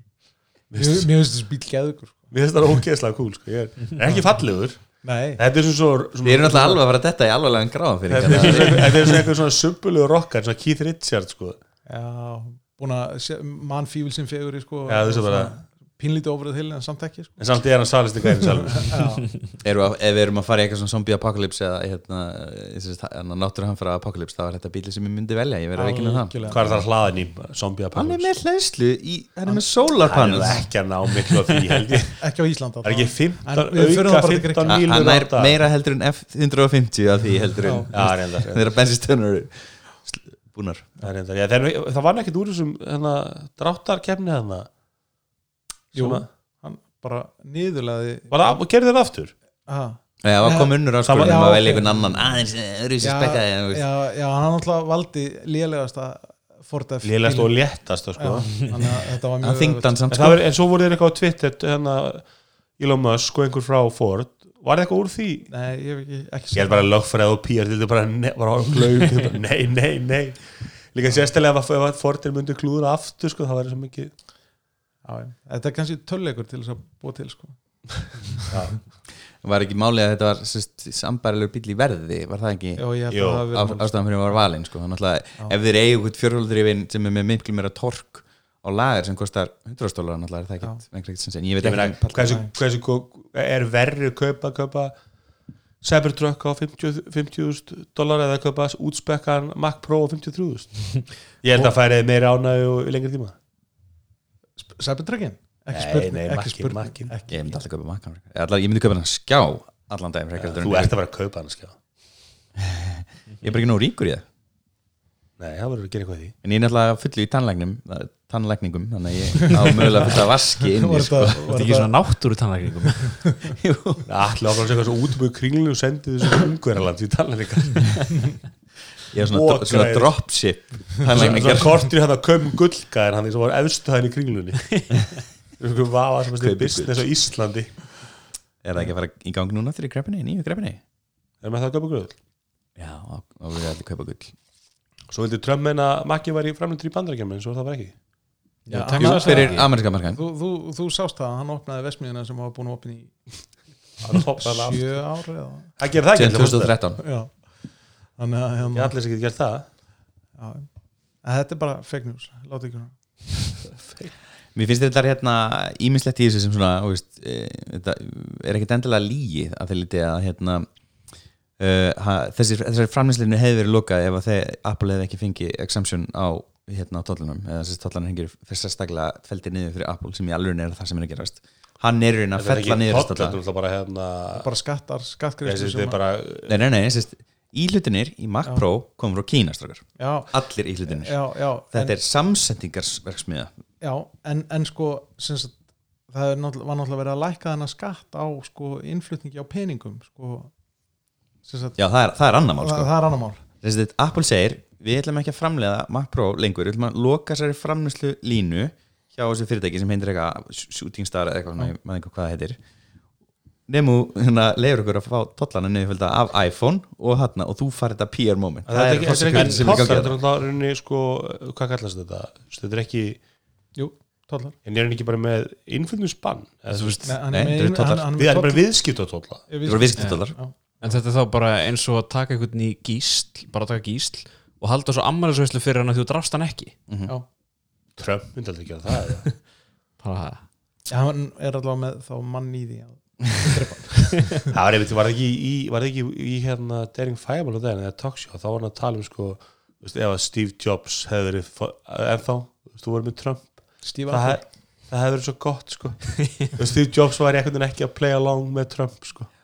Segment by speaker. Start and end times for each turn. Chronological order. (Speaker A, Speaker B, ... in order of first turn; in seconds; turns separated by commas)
Speaker A: 0.7-1.1, Speaker B: 0.8-2.3, Speaker A: 2.3-6.8, Speaker B: 5.0-5.4, Speaker C: 6.2-9.1, Speaker A: 8.1-11.6, Speaker B: 11.9-17.4, Speaker A: 14.9-15.5, Speaker A: 17.4-19.1, Speaker B: 18.7-19.3, Speaker C: 19.6-26.8, Speaker B: 25.8-26.7, Speaker A: 26.5-28.3, Speaker C: 27.9-30.7, Speaker A: 30.0-32.2, Speaker B: 32.2-34.9, Speaker A: 32.8-35.6, Speaker C: 34.7-40.9, Speaker B: 37.6-37.9, Speaker A: 37.9-38.7, Speaker A: 41.0-44.7, Speaker A: 45.9-46.2, Speaker B: 46.0-48.6, Speaker A: 48.3-49.3, Speaker B: 49.7-52.4, Speaker C: 50.2-53.8, Speaker A: 51.0-51.5, Speaker B: 53.0-60.0, Speaker A: 57.0-58.6, Speaker C: 59.4-60.4, Speaker A: 60.1-62.2, Speaker A: 62.8-65.5, Speaker B: 65.5-66.9, Speaker A: 66.5-74.1, Speaker B: 75.0-78.2, Speaker A: 78.5-78.8, Speaker C: 79.4-92.4, Speaker B: 82.8-83.9, Speaker A: 83.1-83.5, Speaker A: 91.6-94.9, Speaker A: 95.8-103.3, Speaker B: 104.6-107.6, Speaker A: 105.7-107.1, Speaker C: 107.3-111.0, Speaker A: 110.4-111.8, Speaker C: 112.6-114.2, Speaker A: 115.4-116.3, Speaker C: 116.4-121.5, Speaker B: 119.5-122.0, Speaker D: 121.4-123.3, Speaker C: 123.6-124.1, Speaker A: 124.1-128.4, Speaker C: 129.1-131.8, Speaker A: 129.2-130.1, Speaker A: 131.1-137.8, Speaker C: 136.4-137.0, Speaker C: 138.6-140.8, Speaker A: 141.4-142.2, Speaker C: 142.8-144.3, Speaker A: 145.1-147.9, Speaker D: 148.7-149.7, Speaker B: 148.7-153.2, Speaker C: 148.9-150.2, Speaker A: 154.0-154.9, Speaker B: 154.4-155.8, Speaker A: 155.8-156.7, Speaker C: 156.1-157.0, Speaker B: 157.0-157.3, Speaker B: 158.2-158.9, Speaker A: 158.7-159.7, Speaker B: 160.4-160.7, Speaker B: 161.2-162.9, Speaker A: 163.7-164.1, Speaker C: 164.6-170.7, Speaker C: 171.6-183.4, Speaker A: 182.4-184.5, Speaker B: 184.3-186.0, Speaker A: 185.4-186.6, Speaker C: 186.4-193.5, Speaker B: 190.0-192.0, Speaker B: 193.8-195.6, Speaker B: 196.1-200.5, Speaker B: 201.4-201.8, Speaker C: 201.8-202.9, Speaker B: 202.6-203.4, Speaker C: 203.6-212.6, Speaker C: 213.7-220.2, Speaker A: 218.7-223.2, Speaker D: 219.3-220.0, Speaker B: 223.8-224.6, Speaker A: 224.6-227.1, Speaker D: 226.7-227.1, Speaker B: 227.0-228.7, Speaker C: 227.3-228.1, Speaker A: 228.1-229.4, Speaker B: 229.5-230.6, Speaker C: 229.6-230.4, Speaker D: 230.0-230.2, Speaker D: 230.8-236.8, Speaker C: 236.9-237.1, Speaker A: 238.0-239.3, Speaker D: 240.0-240.4, Speaker B: 240.9-244.5, Speaker A: 244.5-259.3, Speaker B: 253.8-254.4